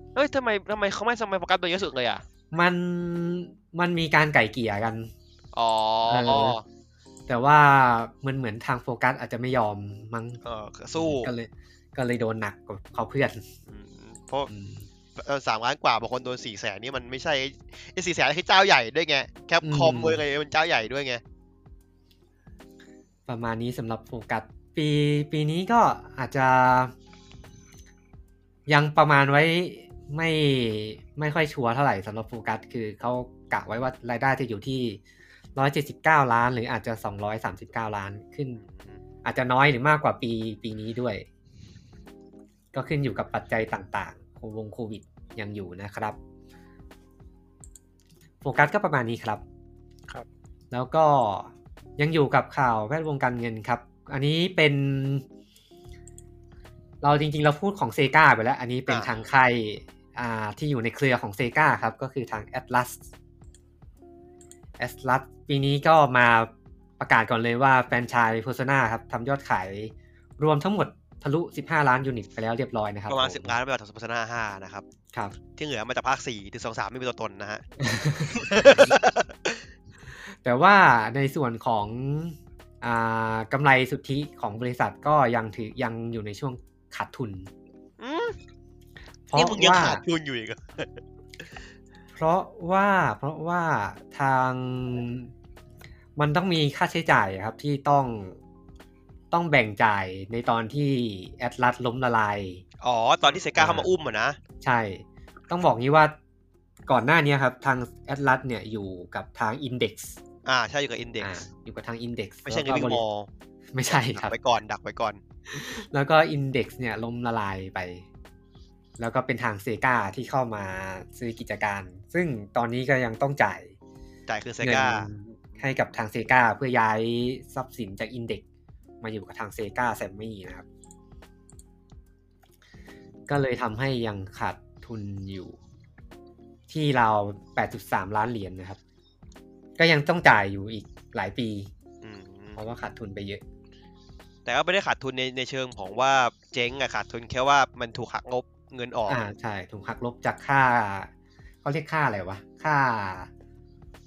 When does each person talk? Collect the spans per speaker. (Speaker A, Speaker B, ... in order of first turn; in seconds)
Speaker A: 0.1-2.2, 5.5-6.6, 10.4-11.3, 13.7-14.5, 15.2-21.2, 38.6-39.0, 58.9-59.2, 73.1-74.8, 75.6-77.6, 78.3-79.6, 88.0-88.4, 89.3-91.0, 102.8-104.4, 110.5-111.4, 112.5-113.3, 114.1-115.2, 124.3-125.9, 142.0-142.6, 144.4-149.2
Speaker B: 2.5-5.1, 6.1-6.6, 7.3-10.4, 11.0-13.5, 14.5-14.9, 19.6-20.2, 23.3-26.9, 28.7-35.0, 35.6-38.6, 39.2-41.3, 42.7-46.2, 48.4-49.4, 50.7-55.2, 57.0-63.0, 64.8-73.6, 77.8-79.0, 80.4-87.5, 89.3-90.0, 92.2-95.3, 96.2-98.4, 99.3-102.6, 103.6-103.9, 104.6-106.2, 106.9-110.2, 111.2-113.0, 113.7-114.3, 115.5-118.0, 119.0-123.7, 124.6-128.4, 129.0-130.7, 133.3-135.6, 136.7-138.8, 139.8-141.7, 142.6-143.4, 149.1-151.1, 151.6-153.3